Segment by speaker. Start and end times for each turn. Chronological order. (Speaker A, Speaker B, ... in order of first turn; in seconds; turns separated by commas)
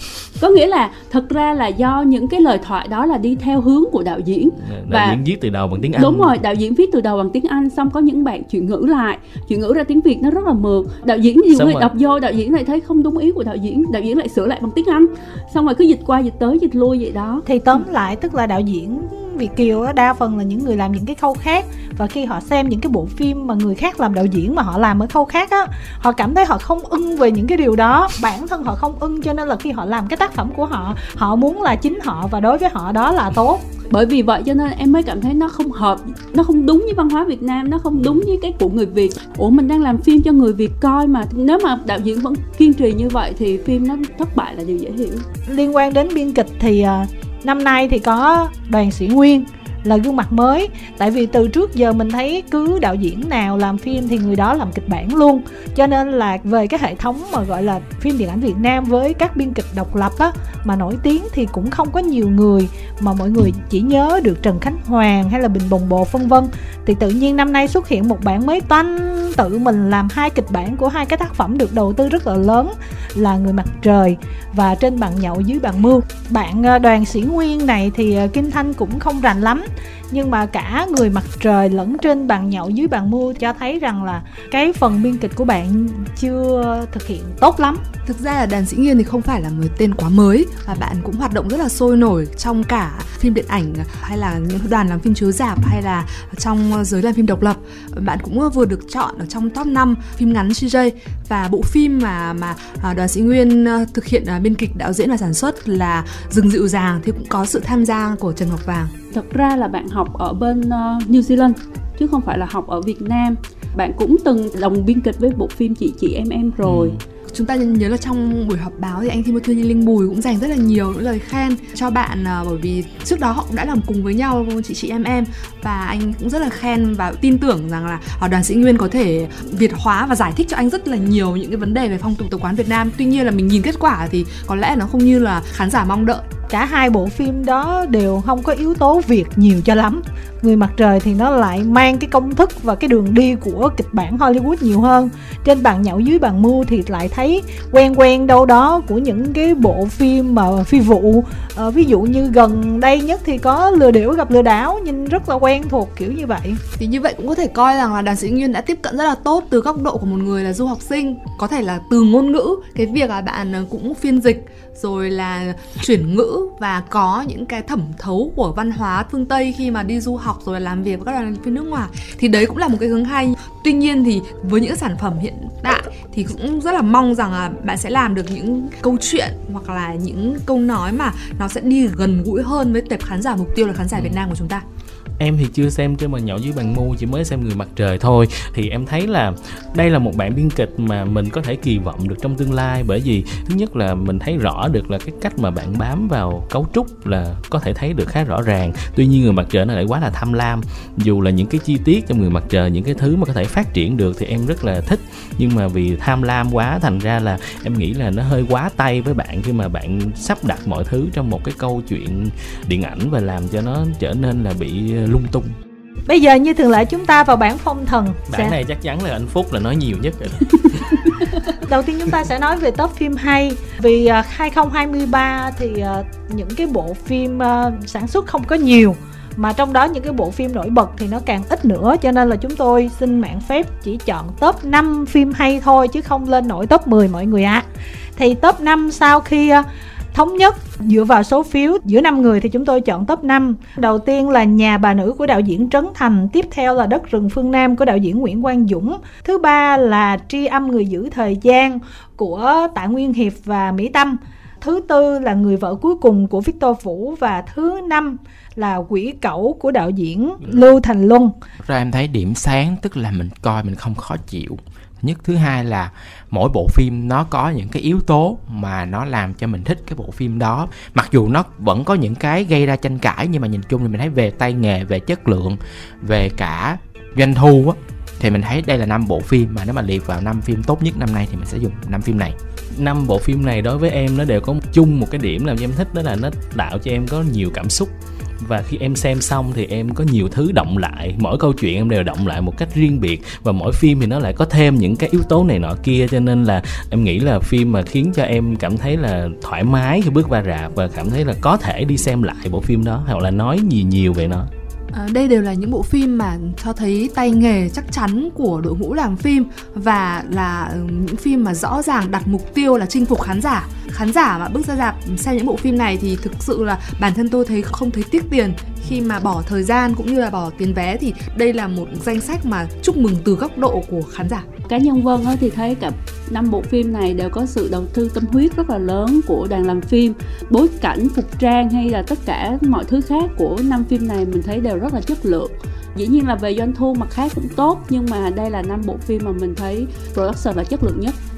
Speaker A: 0.4-5.2, Speaker B: 4.6-6.4, Speaker A: 6.0-17.4, Speaker B: 11.5-11.9, Speaker C: 17.4-33.6, Speaker A: 33.9-45.2, Speaker B: 37.9-38.2, Speaker C: 45.5-87.8, Speaker D: 88.0-108.9, Speaker A: 109.1-117.0, Speaker B: 116.6-117.0, Speaker D: 117.3-136.2, Speaker C: 136.5-156.6, Speaker D: 156.8-184.6, Speaker B: 185.2-215.6, Speaker C: 216.1-218.6, Speaker B: 218.3-221.0, Speaker C: 221.7-237.6, Speaker C: 238.2-261.3, Speaker E: 261.6-282.3, Speaker B: 282.8-304.5, Speaker D: 304.9-324.5, Speaker A: 324.7-341.1